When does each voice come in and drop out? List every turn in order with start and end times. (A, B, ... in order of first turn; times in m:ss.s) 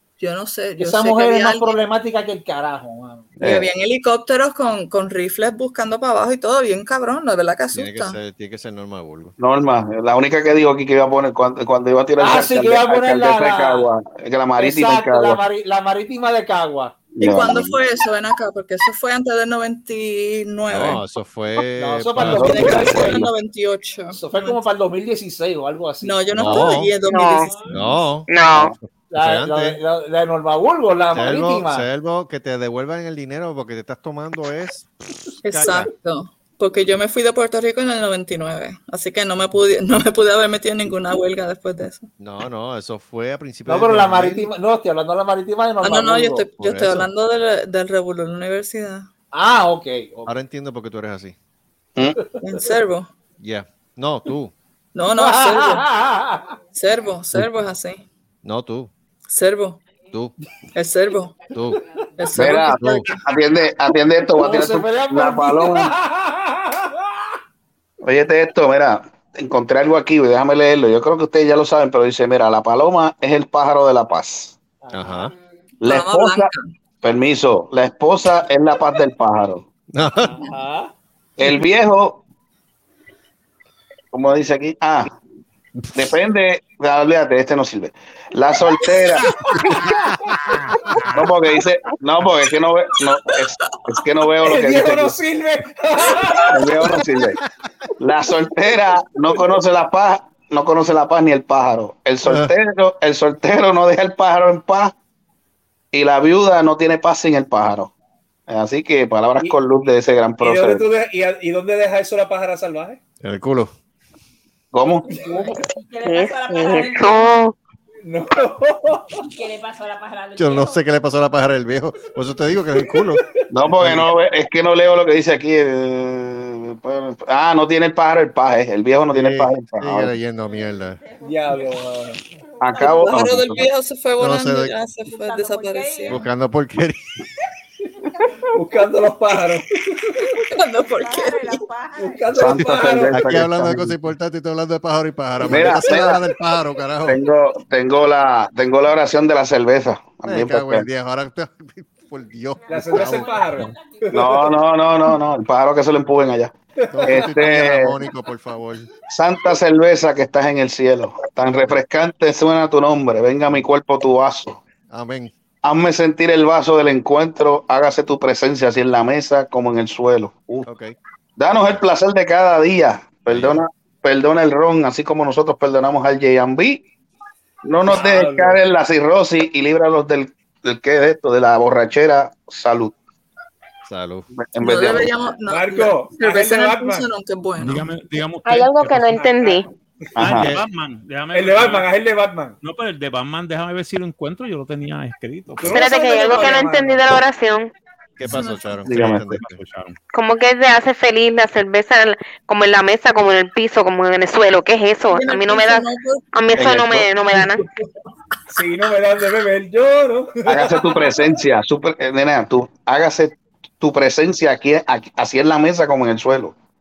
0:00.2-0:01.8 A
0:00.8-0:03.3 B
0:03.4-0:03.7 C
0:03.4-0:08.2 A
0:07.7-0:09.4 D
0:09.4-0:15.4 C
0:12.2-0:13.9 B
0:14.6-0:17.0 B
0:17.1-0:17.8 C
0:17.2-0:21.0 A
0:20.7-0:22.9 D
0:21.8-0:23.3 B
0:22.2-0:23.3 C
0:22.4-0:24.6 A
0:24.1-0:26.7 B
0:26.0-0:28.0 A
0:26.3-0:26.9 D
0:27.1-0:27.5 E
0:27.4-0:28.0 F
0:27.7-0:29.8 D
0:28.3-0:28.8 E
0:29.1-0:31.9 B
0:31.1-0:35.9 D
0:35.4-0:42.1 A
0:42.2-0:44.5 D
0:43.7-0:46.5 B
0:45.8-0:49.1 A
0:46.6-0:47.1 D
0:49.3-0:50.3 B
0:50.3-0:51.4 D
0:52.4-0:53.1 A
0:53.4-0:54.5 D
0:55.0-0:55.9 A
0:55.2-0:56.5 B
0:56.8-0:58.0 A
0:58.4-0:58.9 D
0:59.3-0:59.8 A
1:00.7-1:01.4 A
1:01.5-1:01.8 D
1:01.7-1:02.0 F
1:02.2-1:03.2 A
1:02.4-1:05.9 C
1:02.5-1:03.1 D
1:04.4-1:07.4 B
1:08.0-1:14.6 C
1:14.8-1:15.1 B
1:14.9-1:15.3 D
1:15.1-1:15.6 F
1:15.8-1:16.5 C
1:15.8-1:16.7 A
1:17.0-1:19.6 C
1:19.9-1:20.4 D
1:20.4-1:20.9 B
1:21.4-1:22.2 C
1:24.1-1:25.2 C
1:25.9-1:29.4 C
1:29.5-1:29.9 A
1:29.8-1:30.4 D
1:31.1-1:35.2 C
1:34.4-1:36.7 B
1:36.1-1:36.5 A
1:36.5-1:37.4 C
1:38.0-1:44.9 C
1:42.2-1:42.5 D
1:45.9-1:47.9 C
1:48.5-1:50.8 C
1:50.4-1:53.0 B
1:53.2-1:53.7 D
1:54.7-1:55.1 C
1:55.1-1:57.3 F
1:56.0-1:57.5 E
1:58.0-1:59.2 B
1:59.2-2:00.8 F
2:00.4-2:03.2 D
2:02.9-2:03.5 B
2:03.5-2:10.1 C
2:03.8-2:04.1 D
2:09.1-2:11.0 D
2:10.3-2:13.3 F
2:11.2-2:12.2 B
2:12.6-2:13.7 C
2:12.8-2:16.3 A
2:14.2-2:14.8 D
2:15.0-2:16.3 F
2:16.1-2:17.0 D
2:18.2-2:18.5 F
2:18.5-2:20.2 B
2:20.5-2:21.6 A
2:20.8-2:23.0 F
2:22.0-2:23.3 B
2:22.4-2:24.0 C
2:23.1-2:27.2 D
2:25.4-2:26.2 C
2:27.0-2:30.9 C
2:30.3-2:33.5 D
2:32.6-2:34.6 F
2:32.7-2:34.5 B
2:34.1-2:36.6 C
2:36.8-2:37.4 B
2:36.9-2:38.9 D
2:37.1-2:37.9 C
2:39.1-2:44.6 C
2:44.9-2:45.3 D
2:45.6-2:50.7 C
2:50.6-2:50.9 D
2:51.4-2:56.8 C
2:53.3-2:53.6 D
2:57.6-3:03.0 C
2:57.9-2:58.6 B
3:03.8-3:04.3 D
3:04.4-3:05.1 C
3:04.6-3:07.9 A
3:05.5-3:07.1 B
3:07.6-3:09.3 G
3:08.4-3:09.7 E
3:10.2-3:10.5 C
3:10.2-3:11.9 G
3:10.3-3:10.6 D
3:11.3-3:12.6 B
3:12.6-3:15.8 G
3:15.6-3:17.2 B
3:15.7-3:17.7 E
3:18.2-3:19.6 D
3:18.2-3:18.7 A
3:18.9-3:19.4 C
3:18.9-3:20.0 G
3:20.1-3:27.6 E
3:25.1-3:26.2 A
3:26.6-3:27.1 C
3:28.5-3:31.2 B
3:30.5-3:36.6 C